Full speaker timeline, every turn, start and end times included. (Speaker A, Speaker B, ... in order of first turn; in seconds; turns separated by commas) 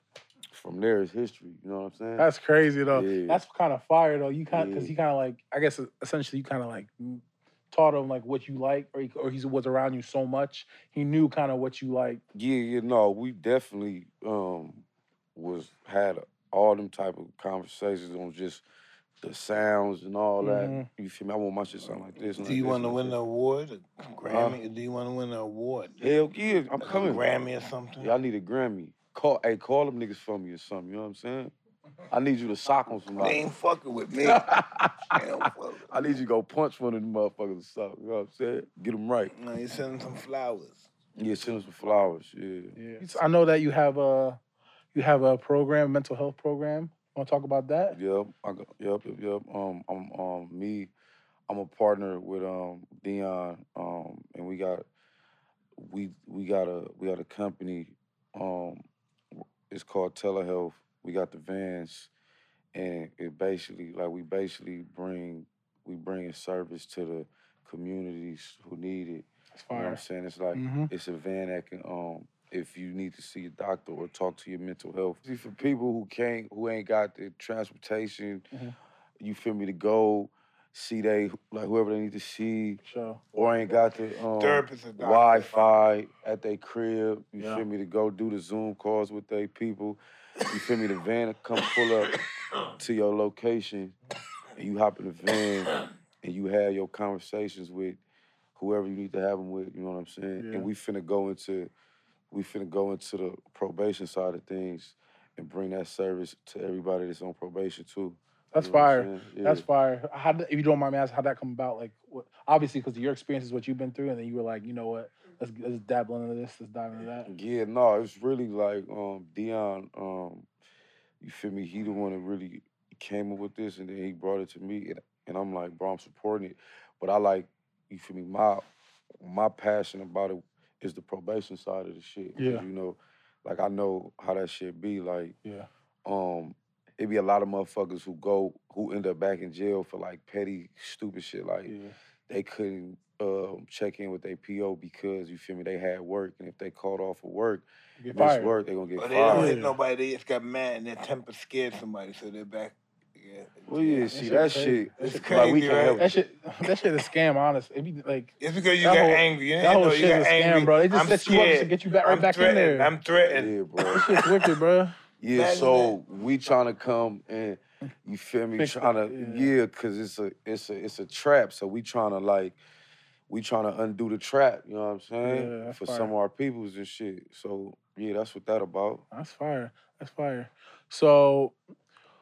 Speaker A: 0.5-2.3, Speaker B: 2.2-12.2, Speaker A: 2.9-3.4, Speaker A: 4.5-4.9, Speaker A: 12.3-18.6, Speaker A: 19.2-23.2, Speaker B: 20.4-20.9, Speaker C: 22.4-26.0, Speaker A: 24.3-24.6, Speaker A: 26.0-27.2, Speaker C: 26.8-28.1, Speaker A: 28.0-31.5, Speaker A: 32.1-33.4, Speaker C: 33.2-34.5, Speaker A: 34.2-35.2, Speaker C: 35.1-36.0, Speaker A: 35.9-39.3, Speaker C: 39.3-40.9, Speaker A: 41.2-42.8, Speaker B: 42.8-44.4, Speaker B: 44.9-48.0, Speaker A: 47.9-50.9, Speaker A: 51.5-54.9, Speaker A: 55.8-58.8, Speaker A: 59.4-62.1, Speaker A: 62.7-78.5, Speaker B: 69.5-70.0, Speaker B: 70.5-70.9, Speaker A: 79.2-82.8, Speaker B: 82.8-83.2, Speaker A: 83.3-92.2, Speaker C: 84.4-85.5, Speaker B: 87.4-87.6, Speaker A: 92.8-94.0, Speaker A: 94.6-98.0, Speaker A: 98.6-101.7, Speaker B: 100.4-100.7, Speaker A: 102.3-109.7, Speaker B: 108.5-117.3, Speaker A: 117.2-120.5, Speaker A: 121.2-128.7, Speaker A: 129.2-135.4, Speaker B: 132.4-132.7, Speaker A: 136.1-141.8, Speaker B: 141.7-141.9, Speaker A: 142.3-149.5, Speaker B: 148.0-148.5, Speaker C: 149.0-154.3, Speaker B: 149.3-149.8, Speaker A: 153.7-156.1, Speaker B: 154.1-162.9, Speaker C: 155.0-156.1, Speaker C: 158.4-164.5, Speaker A: 163.3-164.1, Speaker B: 163.9-165.0, Speaker A: 165.2-172.6, Speaker C: 165.3-166.0, Speaker B: 168.6-169.5, Speaker A: 173.3-179.0, Speaker B: 175.2-176.1, Speaker B: 179.1-181.6